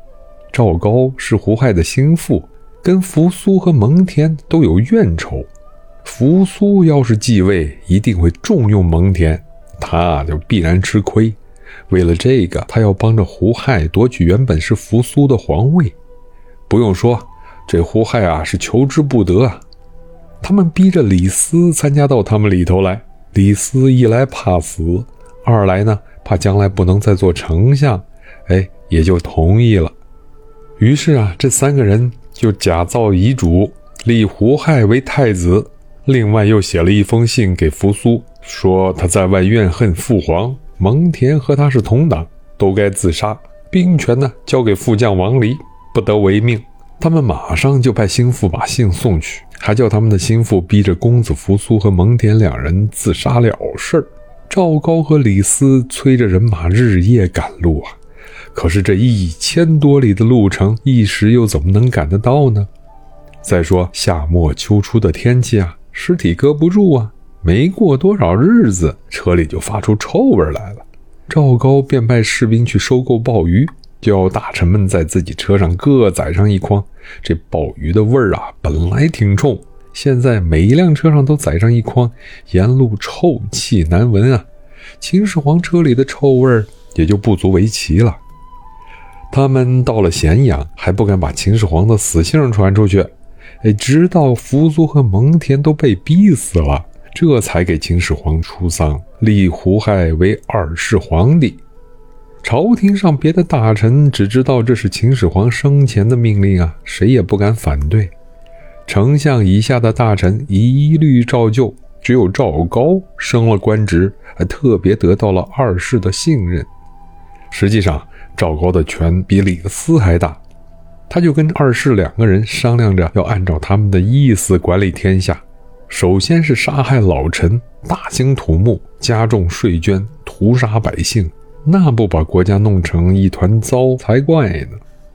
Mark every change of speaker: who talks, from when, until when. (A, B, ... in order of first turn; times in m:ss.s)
0:00.5-0:05.5 A
0:06.0-0:11.4 A
0:11.9-0:16.0 A
0:16.7-0:19.6 A
0:20.4-0:29.9 A
0:30.8-0:58.0 A
0:58.5-1:02.7 A
1:03.4-1:24.4 A
1:25.0-1:28.2 A
1:29.3-1:41.6 A
1:42.4-1:48.1 A
1:48.8-1:56.7 A
1:57.5-2:00.4 A
2:01.1-2:14.8 A